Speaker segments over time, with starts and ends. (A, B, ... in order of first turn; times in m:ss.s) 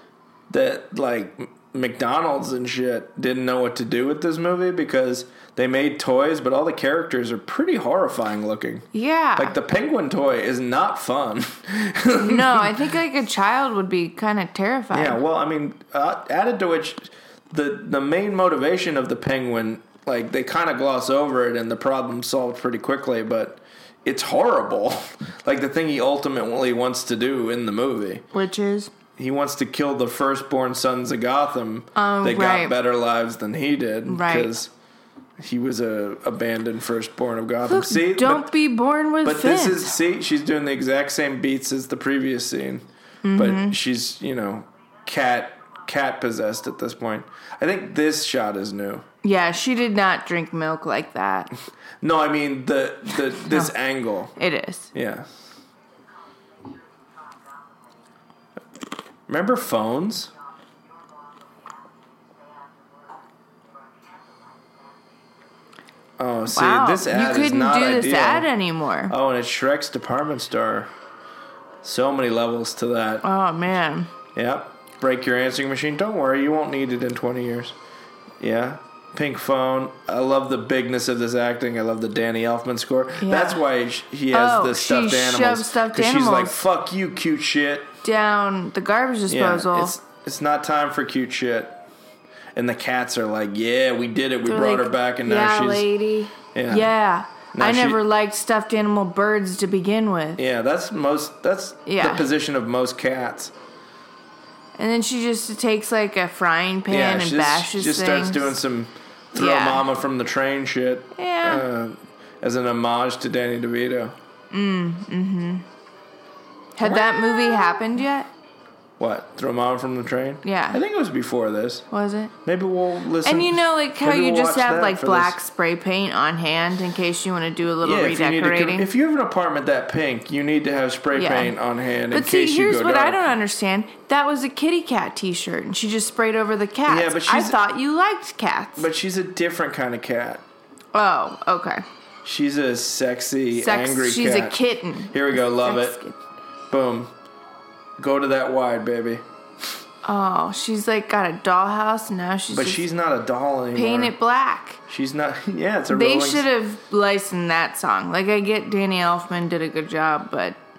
0:00.5-0:12.8 A
0:08.9-0:09.5 B
0:12.2-0:15.2 B
0:14.9-0:28.2 A
0:28.3-0:28.9 B
0:29.2-0:34.7 A
0:31.9-0:32.7 B
0:34.0-0:34.5 B
0:35.4-0:38.5 A
0:37.6-0:39.9 B
0:39.2-0:49.0 A
0:43.2-0:43.8 B
0:49.2-0:51.5 B
0:52.0-0:54.3 A
0:54.4-0:54.9 B
0:54.9-0:55.3 A
0:59.3-1:00.3 A
1:06.2-1:08.5 A
1:06.5-1:09.1 B
1:09.1-1:10.9 A
1:11.8-1:13.2 A
1:13.2-1:14.1 B
1:14.3-1:17.8 A
1:18.4-1:28.0 A
1:23.2-1:23.6 B
1:24.3-1:26.6 B
1:28.0-1:29.9 B
1:29.3-1:31.8 A
1:32.6-1:35.9 A
1:34.4-1:40.4 B
1:36.5-1:36.9 A
1:37.5-1:38.0 A
1:40.4-1:43.5 A
1:41.8-1:42.3 B
1:44.8-1:48.6 B
1:46.9-1:54.2 A
1:49.3-1:49.8 B
1:51.2-1:51.6 B
1:54.5-1:55.6 B
1:56.8-1:58.3 B
1:56.8-1:57.8 A
1:59.0-2:01.9 A
2:00.4-2:00.8 B
2:01.9-2:02.3 B
2:02.4-2:05.4 A
2:03.2-2:08.9 B
2:07.8-2:13.2 A
2:11.1-2:11.5 B
2:12.1-2:18.9 B
2:16.9-2:17.6 A
2:18.8-2:20.4 A
2:20.9-2:21.8 B
2:22.2-2:26.0 A
2:23.5-2:26.2 B
2:26.7-2:27.1 A
2:28.0-2:29.2 A
2:30.0-2:32.8 B
2:32.5-2:34.1 A
2:33.7-2:34.8 B
2:34.9-2:36.5 A
2:35.9-2:40.6 B